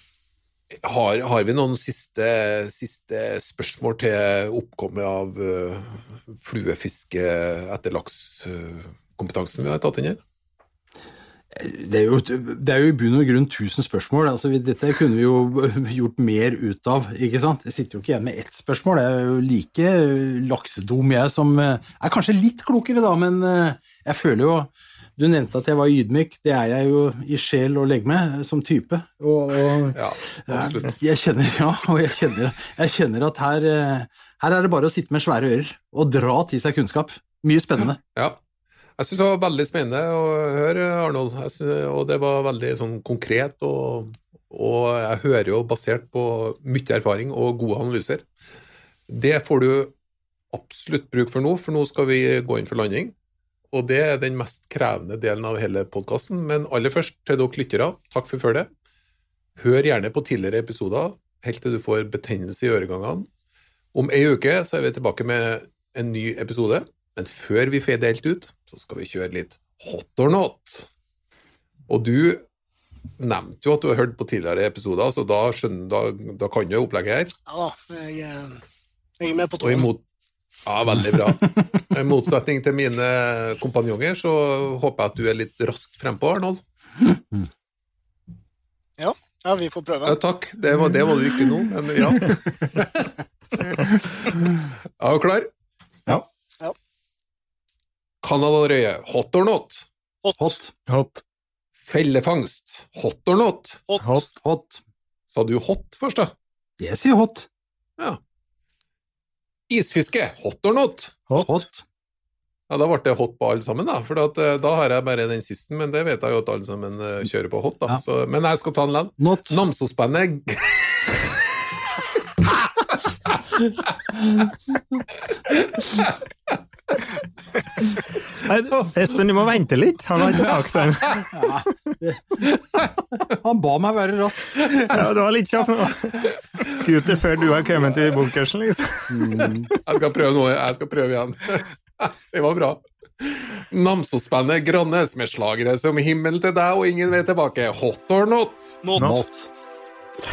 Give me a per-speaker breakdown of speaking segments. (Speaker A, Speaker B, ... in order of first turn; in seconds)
Speaker A: 0.8-10.2, 29.9-31.0, 38.1-38.4, 39.0-48.3, 49.1-49.9, 50.5-53.1, 53.7-58.7, 59.6-63.3, 63.9-70.9, 71.9-72.4, 73.2-77.3, 79.6-80.0, 80.7-86.6, 90.1-95.5, 98.2-99.9, 101.9-103.8, 105.3-106.3, 109.7-111.2, 112.7-121.5, 122.4-123.6, 125.3-126.2, 139.8-148.8
Speaker B: 11.5-38.0, 100.4-100.7, 104.4-104.8, 106.8-107.5, 111.4-111.8, 119.2-119.6, 124.2-124.5, 131.3-132.5, 133.3-135.0, 139.1-139.7, 149.0-149.5
Speaker C: 77.5-78.6, 79.2-79.9, 89.0-90.2, 100.2-100.6, 103.9-104.3, 148.8-149.2
Speaker D: 100.9-101.2, 128.4-131.7, 134.9-139.7